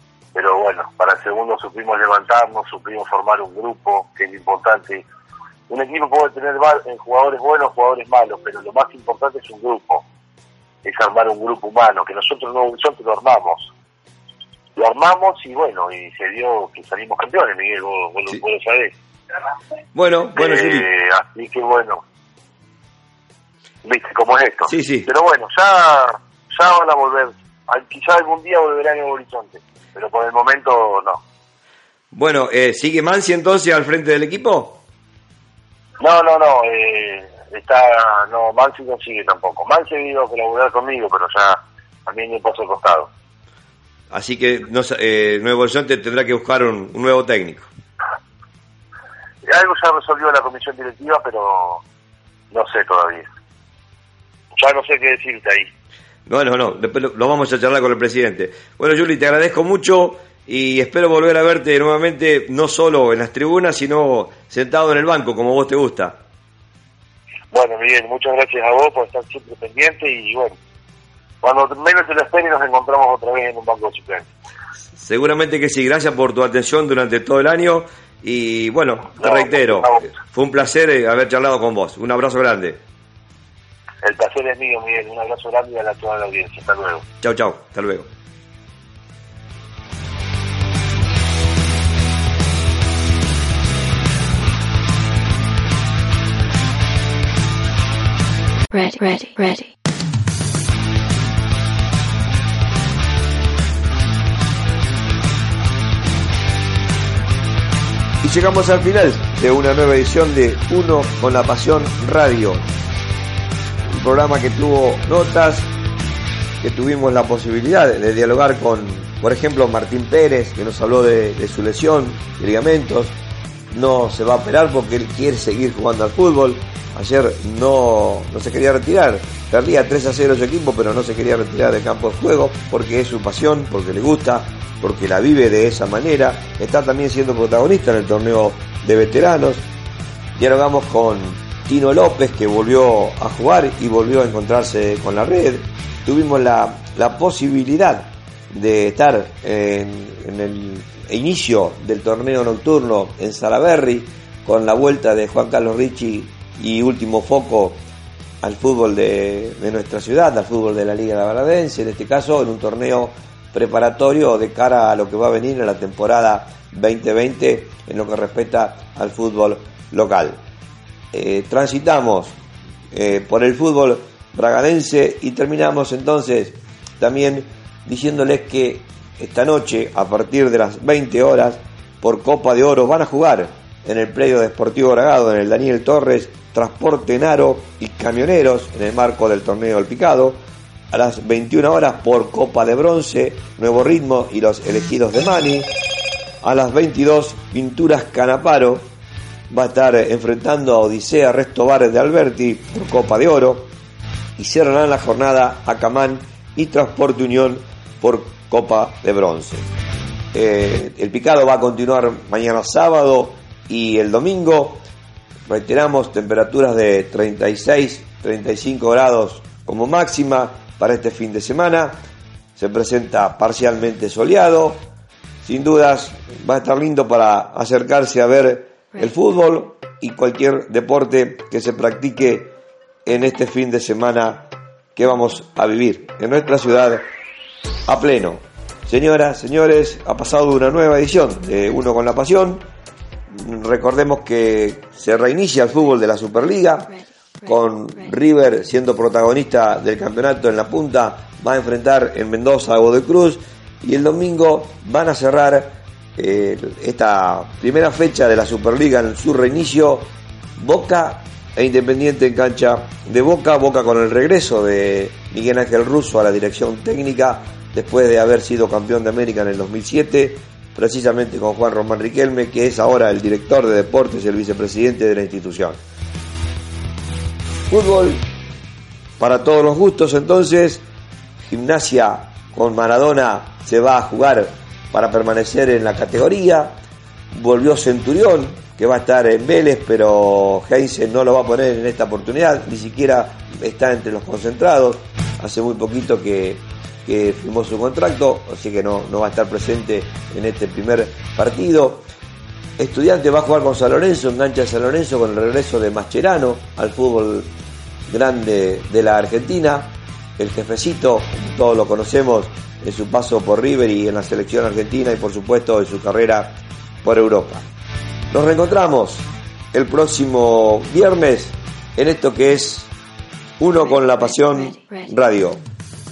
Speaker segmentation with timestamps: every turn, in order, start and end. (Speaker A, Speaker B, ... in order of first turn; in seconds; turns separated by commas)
Speaker A: 0.3-5.0, Speaker A: 5.7-10.1, Speaker A: 10.8-13.7, Speaker A: 14.8-18.9, Speaker B: 19.9-20.9, Speaker A: 20.4-22.0, Speaker A: 23.8-31.2, Speaker B: 24.7-25.1, Speaker B: 32.1-34.8, Speaker A: 36.0-43.1, Speaker B: 44.1-47.7, Speaker A: 49.5-51.8, Speaker A: 52.5-53.3, Speaker A: 54.5-55.7, Speaker B: 56.3-66.2, Speaker A: 67.5-70.6, Speaker A: 71.4-74.3, Speaker B: 75.0-82.8, Speaker A: 79.2-80.1, Speaker A: 84.0-87.0, Speaker B: 87.2-88.1, Speaker C: 98.7-99.7, Speaker B: 108.2-112.7, Speaker B: 113.8-115.7, Speaker B: 116.6-123.2, Speaker B: 123.7-139.7, Speaker B: 140.4-157.8, Speaker B: 158.4-170.4, Speaker B: 171.1-172.4, Speaker B: 172.9-190.4, Speaker B: 190.9-195.7, Speaker B: 196.4-198.9, Speaker B: 199.5-203.7, Speaker B: 204.4-209.7, Speaker B: 210.3-214.8, Speaker B: 215.5-222.0, Speaker B: 222.6-224.9, Speaker B: 225.4-232.5, Speaker B: 233.1-237.1, Speaker B: 237.9-242.7, Speaker B: 243.3-275.8, Speaker B: 277.7-278.3, Speaker B: 279.2-280.8, Speaker B: 281.5-286.8, Speaker B: 287.3-302.1, Speaker B: 302.8-307.5, Speaker B: 308.1-317.7, Speaker B: 318.3-322.9, Speaker B: 323.6-325.6, Speaker C: 324.1-325.1